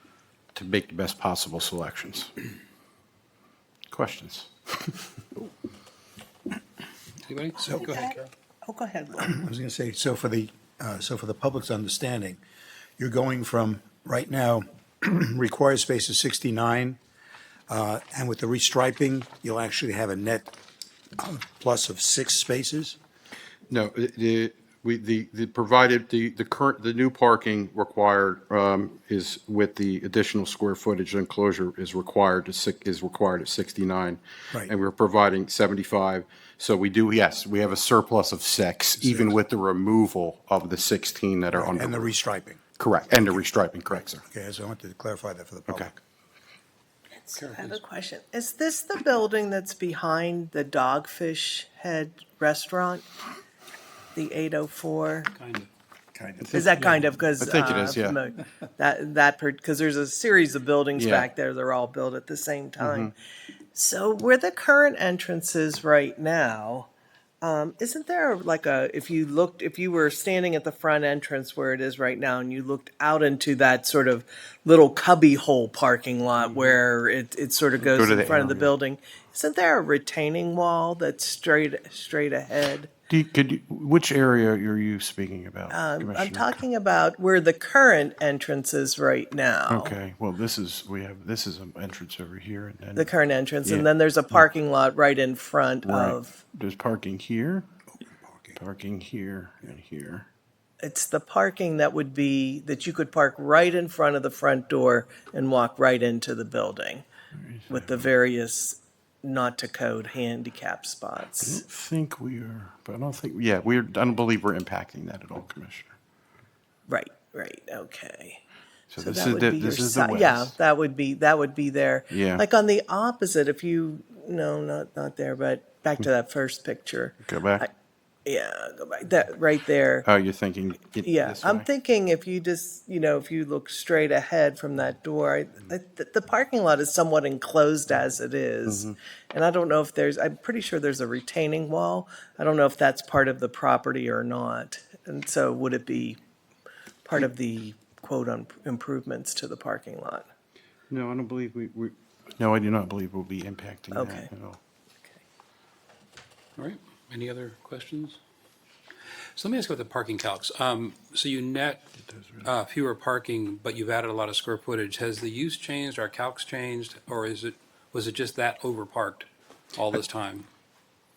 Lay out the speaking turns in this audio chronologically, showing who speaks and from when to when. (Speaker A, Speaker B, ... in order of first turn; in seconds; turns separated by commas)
Speaker A: 0.5-2.3, Speaker A: 3.9-5.0, Speaker B: 7.2-8.3, Speaker C: 7.7-9.3, Speaker D: 9.2-12.4, Speaker D: 13.0-17.0, Speaker D: 17.7-20.5, Speaker D: 21.2-22.9, Speaker A: 23.7-42.1, Speaker D: 39.0-39.4, Speaker D: 41.5-42.6, Speaker A: 42.8-44.2, Speaker D: 43.3-46.0, Speaker C: 47.1-53.0, Speaker B: 47.3-47.8, Speaker C: 54.1-55.3, Speaker B: 55.3-55.7, Speaker A: 56.4-56.8, Speaker C: 56.5-63.1, Speaker A: 57.4-58.2, Speaker A: 61.0-61.3, Speaker A: 62.8-63.1, Speaker C: 63.7-66.9, Speaker C: 67.4-82.9, Speaker A: 77.8-78.7, Speaker A: 83.1-86.6, Speaker C: 85.7-89.9, Speaker A: 89.7-93.1, Speaker C: 93.0-96.4, Speaker A: 95.8-97.7, Speaker D: 98.0-98.6, Speaker A: 98.5-100.2, Speaker C: 100.8-107.0, Speaker A: 107.3-108.0, Speaker C: 107.7-111.6, Speaker A: 111.4-116.0, Speaker C: 116.9-118.4, Speaker A: 118.9-120.5, Speaker C: 119.0-127.7, Speaker A: 122.1-122.4, Speaker A: 127.2-127.6, Speaker C: 128.2-130.1, Speaker A: 130.0-131.6, Speaker C: 131.0-146.2, Speaker A: 138.7-138.9, Speaker C: 147.0-150.2, Speaker A: 150.9-154.6, Speaker C: 153.9-154.3, Speaker B: 156.6-158.2, Speaker B: 159.3-161.8, Speaker A: 162.1-162.4, Speaker B: 162.4-170.5